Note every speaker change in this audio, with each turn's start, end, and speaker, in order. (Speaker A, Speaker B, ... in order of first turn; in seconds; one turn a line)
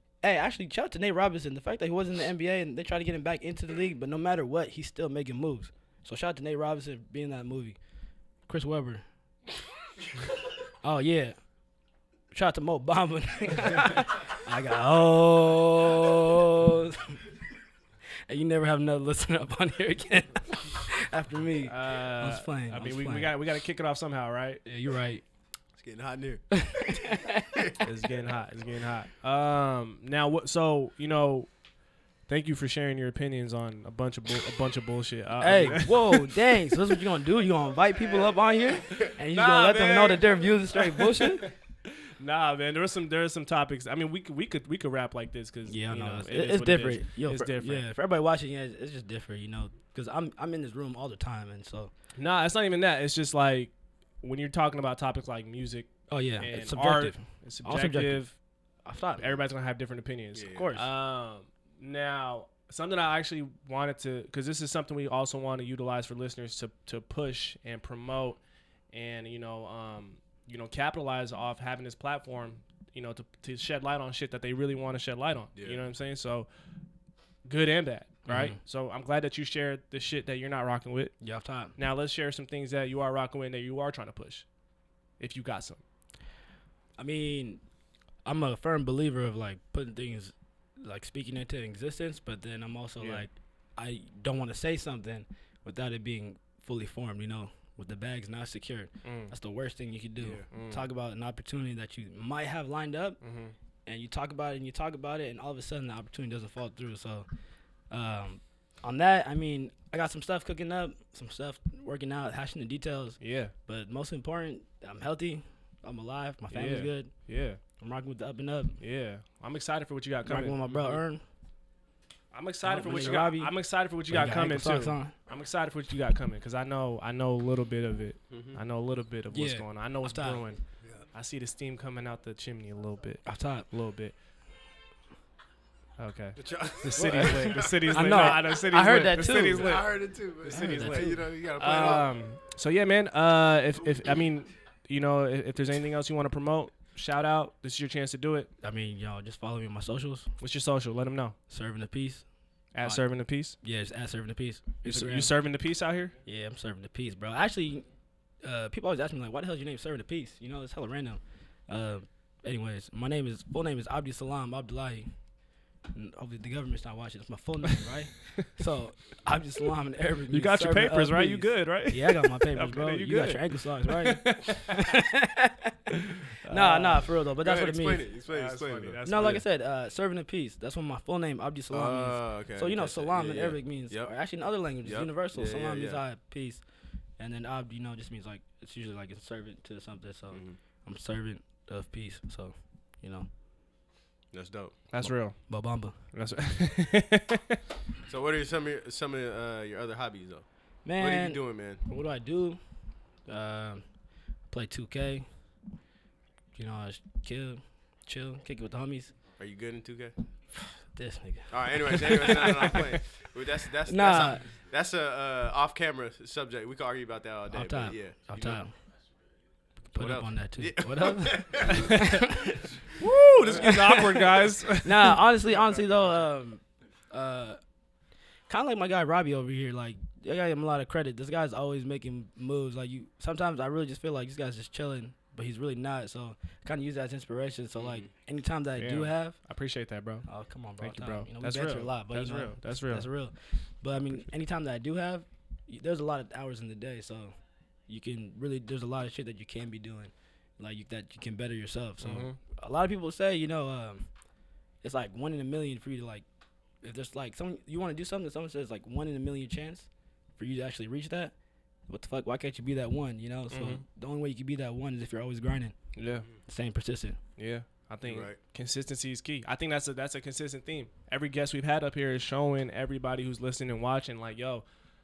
Speaker A: 0.2-7.8
Speaker A: 8.5-9.0
Speaker A: 10.8-11.4
Speaker A: 12.3-17.2
Speaker A: 18.3-23.4
Speaker B: 21.6-24.6
Speaker A: 24.6-25.2
Speaker C: 25.8-27.0
Speaker A: 26.5-27.6
Speaker C: 27.5-27.8
Speaker B: 27.8-31.5
Speaker B: 32.3-36.4
Speaker A: 35.4-41.5
Speaker B: 38.9-47.9
Speaker A: 45.7-51.9
Speaker B: 52.2-58.4
Speaker A: 56.1-58.2
Speaker A: 58.8-59.2
Speaker B: 59.2-68.4
Speaker C: 60.3-60.7
Speaker A: 60.5-60.9
Speaker B: 68.9-76.5
Speaker B: 77.5-81.1
Speaker A: 78.2-78.6
Speaker A: 81.2-81.7
Speaker B: 81.8-84.5
Speaker B: 85.2-85.8
Speaker A: 87.0-87.6
Speaker A: 88.2-103.2
Speaker B: 93.0-93.2
Speaker B: 99.0-99.3
Speaker B: 100.5-100.8
Speaker B: 103.2-103.5
Speaker A: 103.8-107.2
Speaker A: 107.9-117.1
Speaker B: 113.2-113.5
Speaker B: 116.5-117.6
Speaker A: 117.8-118.8
Speaker B: 118.8-121.0
Speaker A: 120.2-121.2
Speaker B: 122.3-130.6
Speaker A: 122.6-123.5
Speaker A: 124.1-125.1
Speaker C: 128.3-128.6
Speaker A: 129.3-130.4
Speaker B: 131.1-134.1
Speaker A: 133.2-133.7
Speaker B: 136.0-139.9
Speaker C: 136.4-138.3
Speaker A: 136.9-139.8
Speaker C: 139.6-142.1
Speaker B: 140.4-148.5
Speaker A: 140.5-141.3
Speaker A: 148.6-150.3
Speaker B: 150.4-151.3
Speaker A: 151.5-152.2
Speaker B: 152.7-153.6
Speaker A: 153.6-155.3
Speaker B: 154.8-156.1
Speaker A: 156.2-157.9
Speaker A: 158.4-165.1
Speaker A: 165.9-175.8
Speaker B: 170.3-175.0
Speaker B: 175.9-177.1
Speaker A: 176.5-178.1
Speaker C: 177.4-179.4
Speaker B: 178.3-179.4
Speaker A: 179.0-186.6
Speaker C: 181.7-184.1
Speaker C: 184.8-186.0
Speaker A: 187.2-193.3
Speaker C: 190.3-190.6
Speaker C: 194.3-195.1
Speaker B: 194.9-197.6
Speaker A: 195.5-195.9
Speaker C: 198.1-201.8
Speaker A: 200.8-202.6
Speaker A: 203.2-203.8
Speaker A: 204.5-205.2
Speaker A: 206.5-209.1
Speaker C: 209.4-210.1
Speaker A: 210.9-212.9
Speaker C: 211.5-218.6
Speaker A: 213.8-214.4
Speaker A: 217.5-218.7
Speaker A: 219.9-222.7
Speaker C: 219.9-222.0
Speaker B: 221.6-222.3
Speaker C: 223.0-224.2
Speaker B: 223.4-225.2
Speaker A: 223.5-224.2
Speaker A: 224.8-227.6
Speaker A: 228.5-239.4
Speaker C: 237.8-238.1
Speaker B: 238.8-240.2
Speaker A: 240.3-247.3
Speaker B: 240.8-243.1
Speaker A: 247.9-254.1
Speaker B: 252.0-252.4
Speaker A: 254.8-256.2
Speaker A: 256.8-261.3
Speaker A: 261.9-265.7
Speaker B: 263.5-263.8
Speaker B: 265.9-266.3
Speaker A: 266.4-267.2
Speaker B: 267.4-274.6
Speaker C: 268.0-268.4